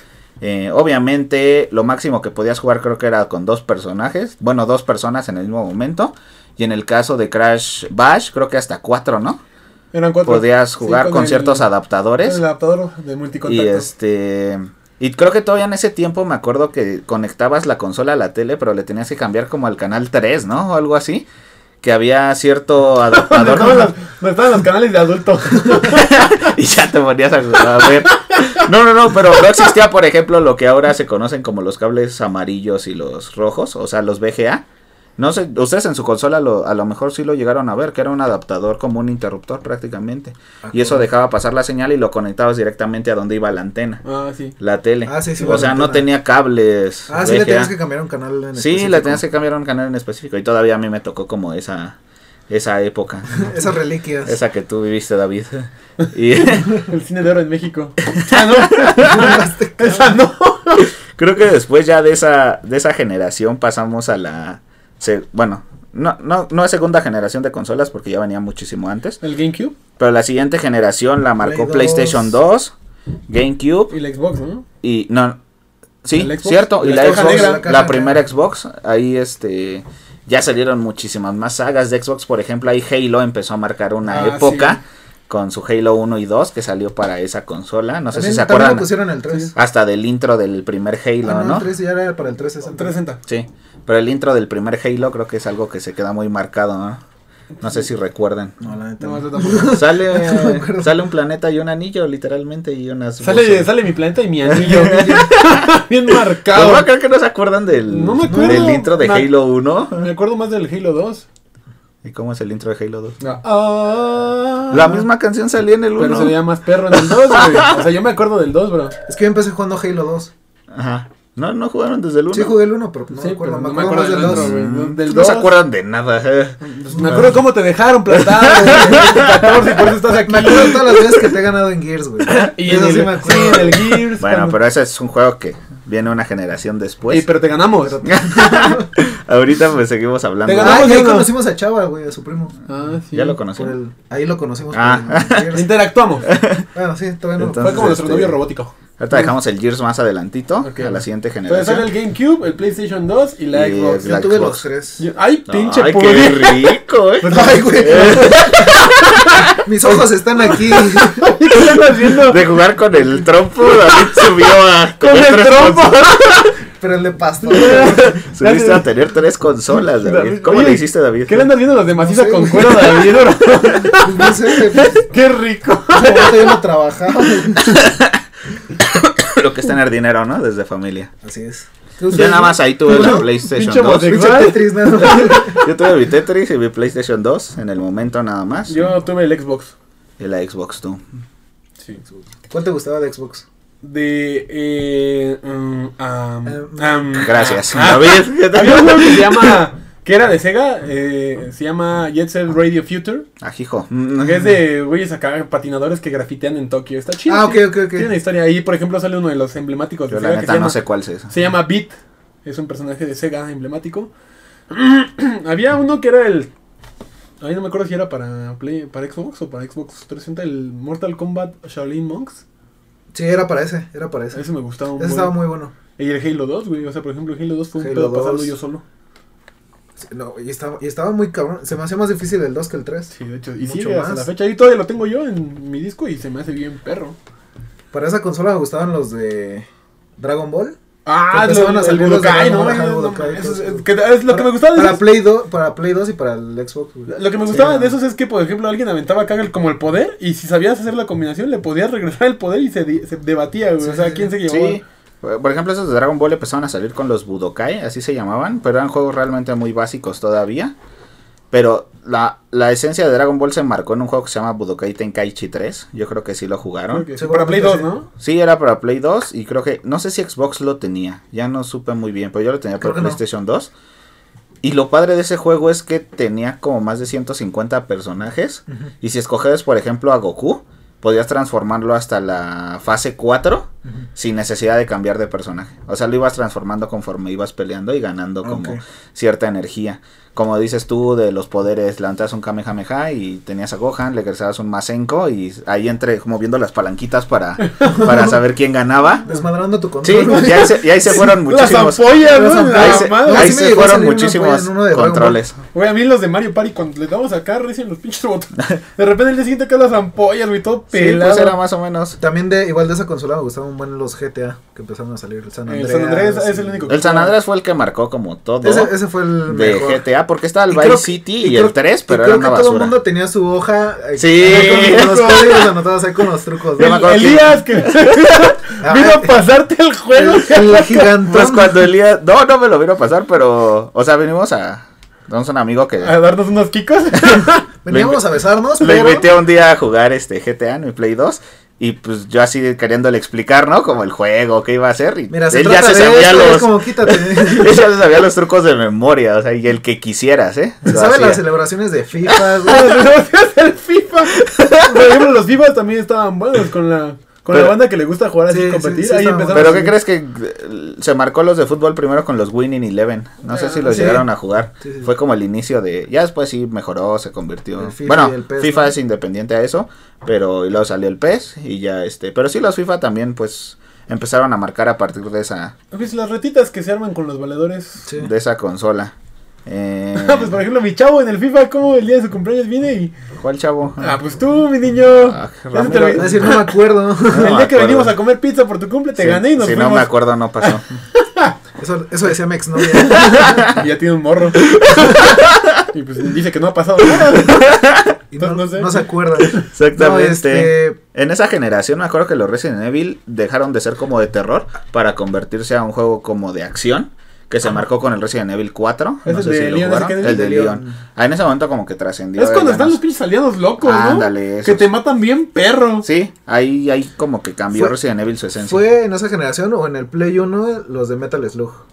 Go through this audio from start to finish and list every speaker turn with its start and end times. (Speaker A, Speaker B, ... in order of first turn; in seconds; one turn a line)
Speaker A: 0.4-9.4
Speaker B: 9.9-11.7
Speaker A: 10.2-12.4
Speaker B: 12.2-13.9
Speaker A: 13.5-21.3
Speaker A: 21.8-23.9
Speaker B: 23.1-26.5
Speaker A: 25.8-34.6
Speaker B: 27.8-28.7
Speaker A: 35.2-44.0
Speaker C: 40.6-41.0
Speaker B: 44.0-44.6
Speaker A: 44.6-47.7
Speaker C: 45.1-46.1
Speaker C: 47.1-49.2
Speaker A: 48.6-52.0
Speaker A: 52.5-53.5
Speaker C: 53.4-54.4
Speaker A: 54.2-56.9
Speaker B: 56.6-60.9
Speaker A: 58.2-59.3
Speaker C: 59.0-60.1
Speaker A: 61.1-69.2
Speaker B: 69.2-69.8
Speaker A: 70.0-72.7
Speaker C: 71.4-72.3
Speaker A: 73.3-73.9
Speaker B: 73.9-74.7
Speaker A: 74.8-75.4
Speaker A: 76.0-88.9
Speaker B: 76.1-77.7
Speaker C: 76.8-78.2
Speaker B: 84.1-84.8
Speaker C: 88.1-89.5
Speaker A: 89.5-91.7
Speaker C: 91.2-93.0
Speaker B: 92.7-93.2
Speaker A: 93.3-97.0
Speaker A: 97.6-98.6
Speaker C: 98.6-101.0
Speaker B: 99.0-99.8
Speaker A: 99.7-103.7
Speaker B: 103.2-106.9
Speaker A: 104.5-105.8
Speaker C: 104.6-105.3
Speaker A: 106.5-110.1
Speaker B: 107.9-109.3
Speaker C: 108.3-108.8
Speaker B: 109.9-111.3
Speaker A: 112.0-113.2
Speaker B: 113.2-115.0
Speaker A: 114.7-116.4
Speaker B: 116.0-119.0
Speaker A: 116.9-117.8
Speaker C: 119.1-120.3
Speaker A: 120.7-122.6
Speaker C: 122.3-124.5
Speaker B: 123.1-125.5
Speaker A: 124.2-127.3
Speaker B: 126.7-131.0
Speaker C: 127.0-127.3
Speaker A: 128.4-129.7
Speaker C: 128.4-129.5
Speaker C: 130.1-133.9
Speaker B: 132.3-134.6
Speaker A: 134.1-137.3
Speaker B: 137.1-138.1
Speaker C: 137.8-138.9
Speaker A: 138.1-141.0
Speaker B: 140.4-141.3
Speaker C: 140.6-142.6
Speaker B: 142.7-143.4
Speaker A: 143.1-143.8
Speaker C: 143.6-145.8
Speaker A: 144.7-145.6
Speaker B: 145.5-146.3
Speaker A: 146.3-146.7
Speaker C: 146.7-148.1
Speaker A: 147.4-148.4
Speaker B: 147.6-149.3
Speaker A: 149.0-151.9
Speaker B: 150.6-154.3
Speaker A: 153.5-154.7
Speaker C: 154.0-155.0
Speaker B: 155.0-159.5
Speaker A: 155.5-159.6
Speaker C: 157.2-158.7
Speaker C: 159.6-161.3
Speaker B: 161.0-162.4
Speaker A: 161.6-166.4
Speaker B: 165.0-166.6
Speaker C: 166.8-168.2
Speaker B: 167.5-168.9
Speaker A: 167.6-171.5
Speaker B: 169.9-176.6
Speaker C: 171.9-173.1
Speaker C: 173.9-175.0
Speaker C: 175.9-177.8
Speaker A: 177.7-178.2
Speaker A: 178.8-181.1
Speaker C: 181.2-183.4
Speaker A: 182.1-184.2
Speaker B: 182.3-185.5
Speaker C: 183.9-185.7
Speaker A: 185.1-188.9
Speaker B: 188.7-189.7
Speaker A: 190.2-191.0
Speaker C: 192.5-193.4
Speaker B: 193.8-203.3
Speaker C: 196.5-197.2
Speaker A: 197.2-199.6
Speaker A: 203.4-204.6
Speaker B: 204.2-210.8
Speaker C: 207.3-208.1
Speaker A: 210.1-211.3
Speaker B: 211.3-211.9
Speaker B: 212.4-214.1
Speaker B: 214.7-216.5
Speaker B: 217.4-222.4
Speaker C: 223.1-224.4
Speaker B: 224.3-225.3
Speaker C: 225.0-225.7
Speaker B: 226.0-228.8
Speaker C: 227.8-228.5
Speaker C: 230.0-234.3
Speaker B: 233.1-237.2
Speaker C: 237.9-239.7
Speaker C: 240.2-240.8
Speaker B: 241.1-245.1
Speaker C: 241.3-247.9
Speaker B: 247.1-254.8
Speaker C: 253.8-254.3
Speaker A: 254.4-260.8
Speaker A: 261.5-267.1
Speaker B: 266.9-268.1
Speaker C: 267.2-267.9
Speaker A: 268.2-273.7
Speaker C: 272.8-273.2
Speaker A: 274.6-299.2
Speaker C: 288.4-288.8
Speaker B: 297.6-298.0
Speaker C: 297.9-298.4
Speaker C: 299.2-300.9
Speaker A: 300.0-305.6
Speaker B: 300.2-303.6
Speaker C: 302.2-305.4
Speaker B: 305.7-311.6
Speaker A: 310.9-312.2
Speaker C: 312.2-316.9
Speaker B: 315.7-317.3
Speaker A: 316.9-318.9
Speaker C: 318.6-320.0
Speaker A: 319.5-322.9
Speaker C: 320.7-327.1
Speaker A: 324.2-325.6
Speaker B: 324.4-325.7
Speaker A: 326.8-328.4
Speaker B: 326.8-331.2
Speaker C: 328.8-329.4
Speaker C: 330.1-331.8
Speaker A: 331.2-336.1
Speaker B: 336.0-337.7
Speaker A: 337.2-338.2
Speaker C: 337.9-339.3
Speaker A: 338.8-351.4
Speaker C: 345.3-347.8
Speaker C: 350.9-353.0
Speaker B: 352.6-359.9
Speaker A: 354.5-355.0
Speaker A: 357.5-357.8
Speaker C: 358.5-359.9
Speaker A: 359.5-375.8
Speaker B: 363.5-364.2
Speaker C: 363.9-364.3
Speaker C: 364.8-365.1
Speaker C: 367.8-368.9
Speaker B: 375.9-378.1
Speaker A: 378.2-379.1
Speaker A: 379.7-380.6
Speaker B: 380.1-383.1
Speaker A: 383.4-384.2
Speaker B: 384.0-386.7
Speaker A: 385.2-386.6
Speaker C: 386.1-387.5
Speaker A: 387.3-388.1
Speaker B: 387.3-390.1
Speaker A: 389.2-391.0
Speaker B: 390.6-391.6
Speaker C: 391.8-393.7
Speaker B: 393.1-397.8
Speaker A: 393.2-393.8
Speaker A: 394.6-395.8
Speaker A: 397.4-398.2
Speaker C: 398.3-401.0
Speaker B: 398.4-399.6
Speaker A: 399.5-413.0
Speaker B: 409.2-410.8
Speaker C: 410.2-410.9
Speaker B: 412.4-416.1
Speaker A: 413.8-414.9
Speaker A: 416.0-418.8
Speaker C: 418.6-421.8